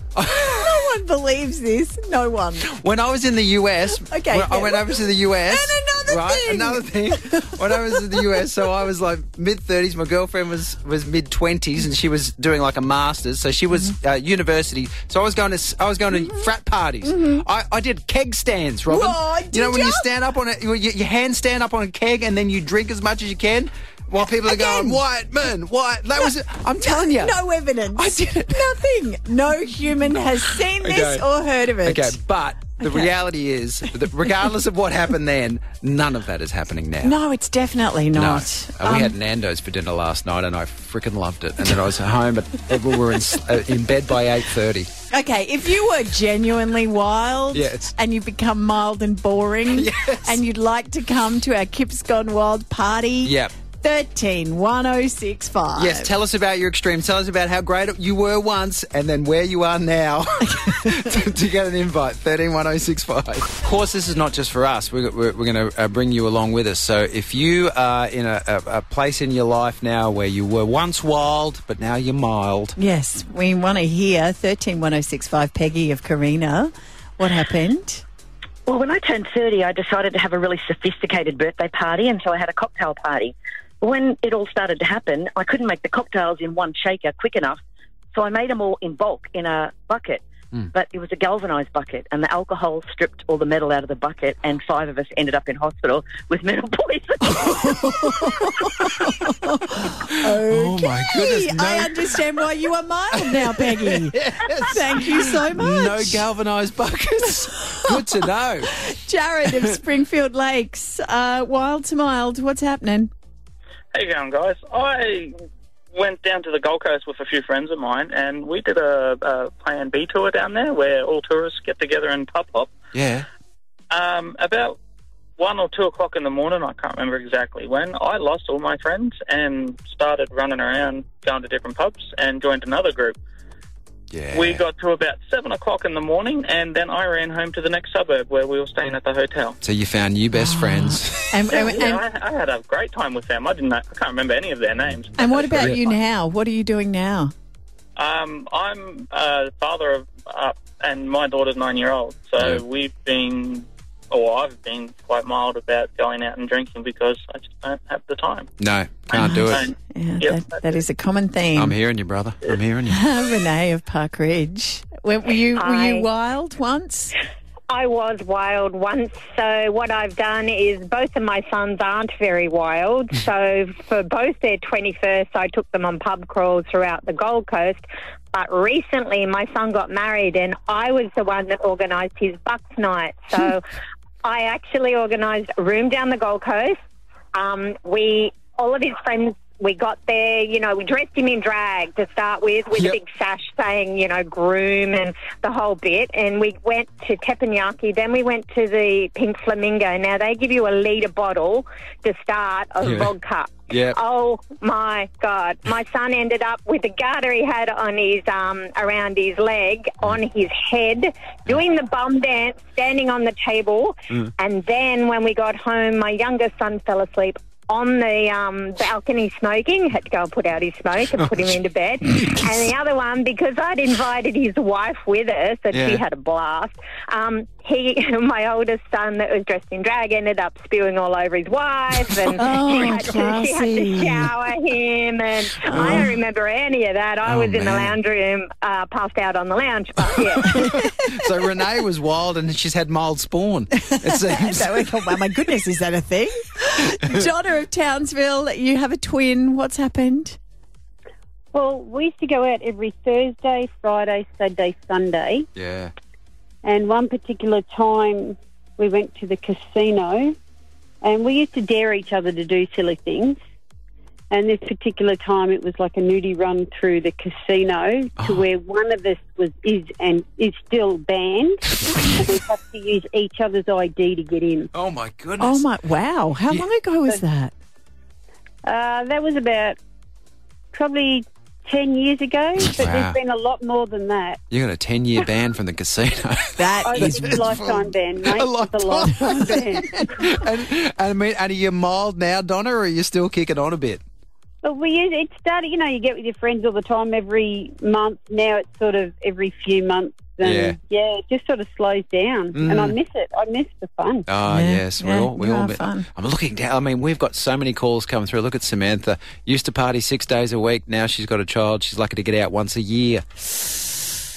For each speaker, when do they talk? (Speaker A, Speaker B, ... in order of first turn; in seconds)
Speaker A: 0.1-0.9, 2.6-27.4, 27.9-28.7, 30.8-31.2, 31.8-37.1, 38.1-44.9, 47.5-47.9, 49.7-50.4, 53.2-53.5, 55.8-72.8, 97.8-98.2, 100.3-102.4, 103.1-108.7, 109.4-109.7, 122.9-123.2, 134.1-134.6, 139.6-141.4, 158.6-159.7, 161.6-163.0, 202.8-203.1, 203.7-204.0, 222.1-222.5, 225.7-226.0, 235.7-236.1, 237.2-238.0, 240.4-245.2, 255.6-255.9, 268.2-268.4, 274.7-275.6, 282.8-283.2, 284.5-294.0, 300.4-300.8, 302.5-302.9, 304.3-313.5
Speaker B: 0.3-2.7, 3.9-8.4, 17.0-17.4, 18.9-20.1, 24.5-25.0, 27.1-32.2, 32.8-33.1, 37.0-39.1, 45.1-56.1, 72.8-78.0, 98.0-98.7, 99.3-106.2, 108.7-113.1, 140.3-142.0, 145.2-147.3, 159.1-161.8, 162.9-167.1, 232.3-234.3, 235.7-236.1, 240.5-240.9, 243.8-250.4, 275.4-277.5, 286.6-287.4, 304.5-306.1
Speaker C: 78.7-87.6, 88.1-97.8
Speaker D: 113.9-115.3, 115.9-122.7, 123.9-124.8, 125.4-133.2, 134.3-139.6, 141.5-146.0, 148.0-158.5, 159.1-160.6
Speaker E: 165.5-166.0, 167.7-183.6, 184.2-186.8, 187.3-240.5
Speaker F: 251.5-255.4, 256.6-260.3, 261.0-263.4, 264.3-274.7, 278.6-279.8, 280.7-284.4, 286.8-289.8, 294.6-304.2